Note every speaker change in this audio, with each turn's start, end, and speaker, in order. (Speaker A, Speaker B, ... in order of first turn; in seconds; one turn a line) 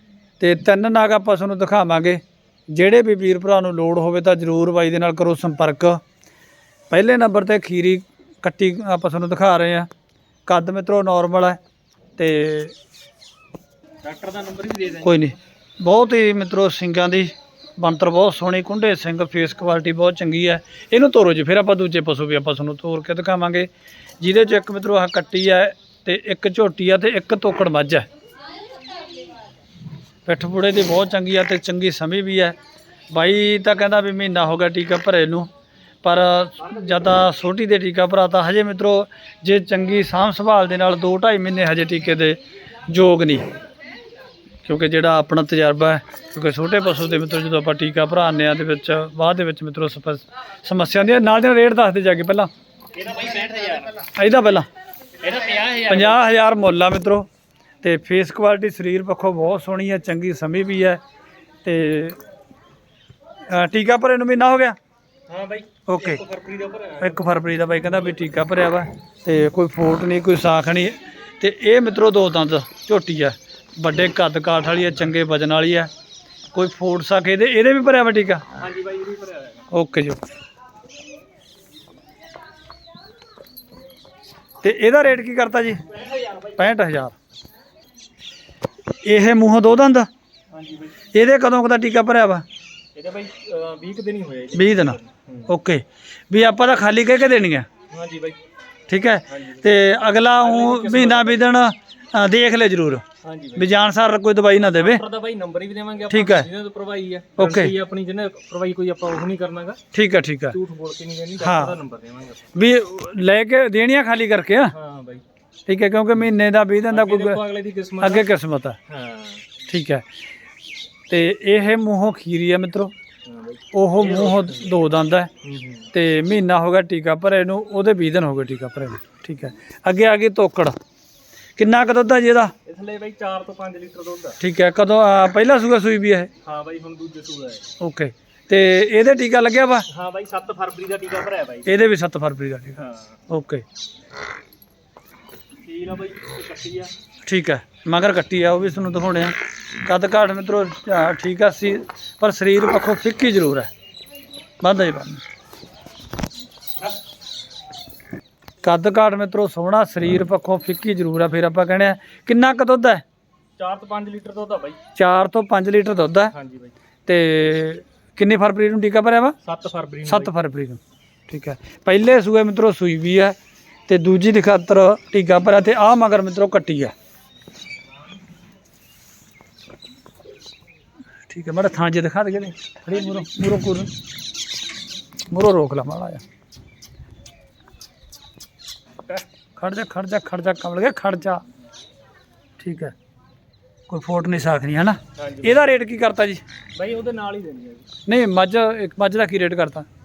Speaker A: 0.4-6.0
Speaker A: 6.9-9.9
Speaker A: 10.4-11.6
Speaker A: 12.2-12.7
Speaker B: 14.0-15.3
Speaker A: 15.0-23.7
Speaker A: 24.2-28.1
Speaker A: 30.2-32.5
Speaker A: 33.1-35.5
Speaker A: 36.0-42.4
Speaker A: 42.9-43.4
Speaker A: 44.6-52.5
Speaker B: 52.9-54.0
Speaker A: 54.0-54.6
Speaker B: 55.2-56.2
Speaker A: 55.9-57.3
Speaker A: 57.8-61.0
Speaker A: 61.6-62.2
Speaker A: 63.5-64.8
Speaker B: 65.3-67.3
Speaker A: 65.9-66.2
Speaker A: 67.0-75.9
Speaker A: 76.5-78.5
Speaker B: 78.5-79.6
Speaker A: 79.7-80.2
Speaker A: 84.6-85.8
Speaker B: 85.9-86.6
Speaker A: 86.5-87.1
Speaker A: 89.0-90.1
Speaker B: 90.6-90.9
Speaker A: 91.1-92.4
Speaker B: 92.9-95.5
Speaker A: 94.5-97.7
Speaker B: 97.9-98.4
Speaker A: 98.9-103.0
Speaker B: 99.3-99.7
Speaker B: 100.4-101.5
Speaker B: 103.2-103.7
Speaker A: 103.6-105.0
Speaker B: 104.5-109.8
Speaker A: 106.1-106.5
Speaker A: 107.4-107.7
Speaker A: 109.9-110.6
Speaker B: 110.5-112.5
Speaker A: 111.4-111.8
Speaker A: 112.5-114.7
Speaker B: 114.7-115.2
Speaker A: 115.7-117.4
Speaker B: 116.9-118.3
Speaker A: 118.0-118.8
Speaker B: 118.9-119.4
Speaker A: 119.7-120.0
Speaker A: 121.1-122.9
Speaker B: 123.2-124.8
Speaker A: 123.7-125.3
Speaker B: 125.4-125.9
Speaker A: 125.9-130.7
Speaker A: 131.6-132.5
Speaker B: 132.6-134.4
Speaker A: 134.4-136.3
Speaker B: 136.4-137.7
Speaker A: 137.8-139.9
Speaker B: 139.9-141.9
Speaker A: 141.7-143.6
Speaker B: 142.8-143.2
Speaker B: 145.6-146.9
Speaker A: 147.2-153.7
Speaker A: 154.6-155.2
Speaker A: 158.6-163.0
Speaker B: 163.6-164.8
Speaker A: 164.9-166.3
Speaker B: 166.3-166.7
Speaker A: 167.1-169.3
Speaker B: 169.4-170.3
Speaker A: 170.1-173.3
Speaker A: 173.9-176.9
Speaker A: 181.3-183.9
Speaker A: 185.3-186.2
Speaker A: 189.6-191.4
Speaker A: 192.6-192.9
Speaker A: 193.9-196.4
Speaker B: 195.2-195.7
Speaker B: 196.7-197.9
Speaker A: 198.1-199.9